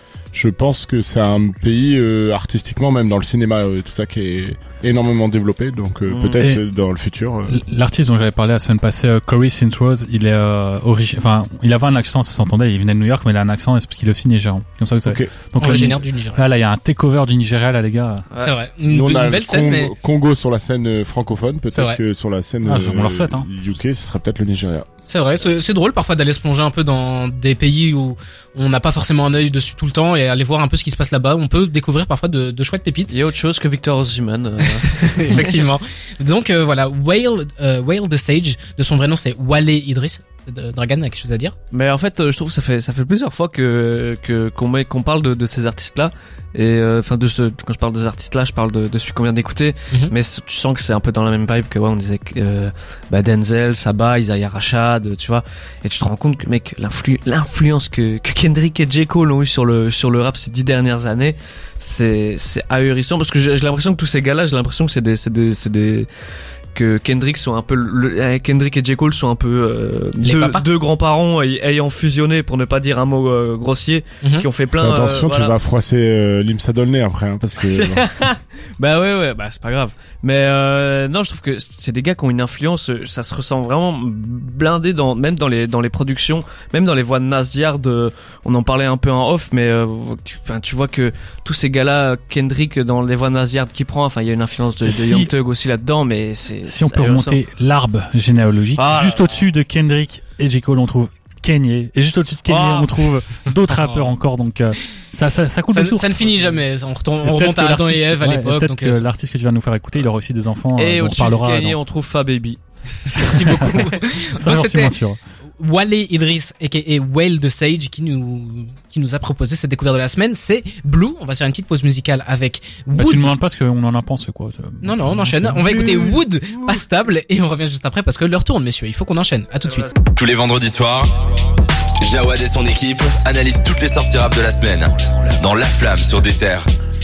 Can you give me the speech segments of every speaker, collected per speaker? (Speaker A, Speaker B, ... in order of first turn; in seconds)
Speaker A: 0.3-7.6, 15.0-15.3, 18.9-24.9, 74.7-78.0
Speaker B: 6.1-6.4, 33.1-35.6, 41.7-66.1, 66.7-75.6, 77.7-97.4, 98.8-99.4, 102.5-103.0, 110.8-112.6
Speaker C: 7.5-18.3, 22.6-23.5, 94.8-95.3, 96.7-106.4, 107.2-111.8, 113.5-115.2, 123.0-126.0
Speaker D: 15.6-16.4, 18.4-19.9, 21.7-22.0, 25.1-33.1, 34.9-41.5, 70.2-70.7, 103.7-104.1, 105.7-109.1, 113.1-115.0, 115.6-123.3, 124.8-129.9
Speaker E: 130.2-131.2, 132.0-136.7